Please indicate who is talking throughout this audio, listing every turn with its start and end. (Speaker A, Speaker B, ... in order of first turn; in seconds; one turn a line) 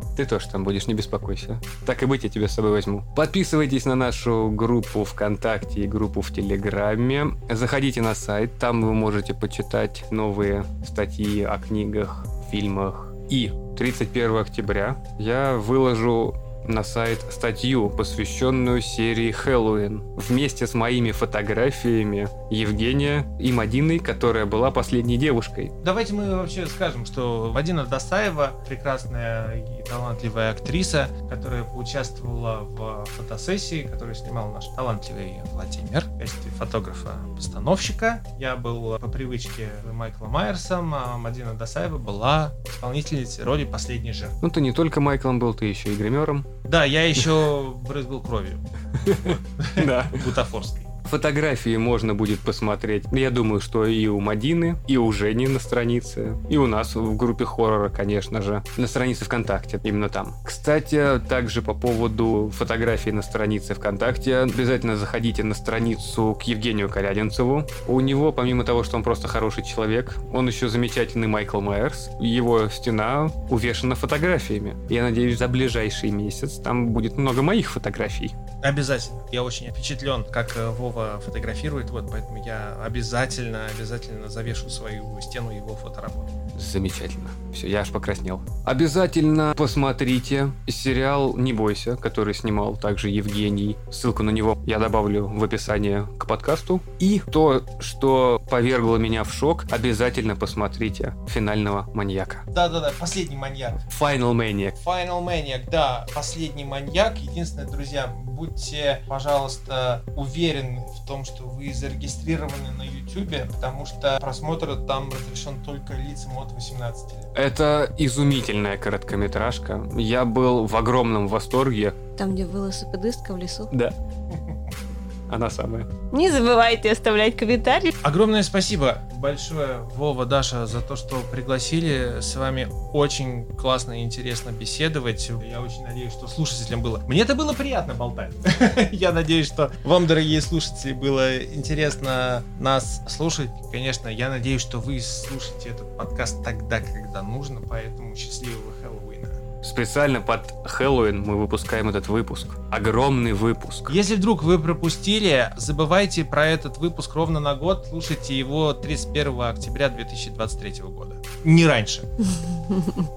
Speaker A: 0.1-25.7
Speaker B: 25.8-44.4
Speaker A: 44.4-46.5
Speaker B: 46.6-50.9
Speaker A: 48.9-50.3
Speaker A: 51.0-78.3
Speaker B: 78.6-86.4
Speaker A: 86.5-102.4
Speaker B: 102.5-103.8
Speaker A: 103.8-104.8
Speaker B: 104.8-117.3
Speaker A: 117.3-122.0
Speaker C: 122.2-123.7
Speaker A: 123.7-124.0
Speaker B: 124.3-124.6
Speaker A: 125.3-125.9
Speaker C: 126.1-127.9
Speaker B: 128.0-149.4
Speaker A: 149.6-153.9
Speaker B: 153.9-162.1
Speaker C: 162.7-163.1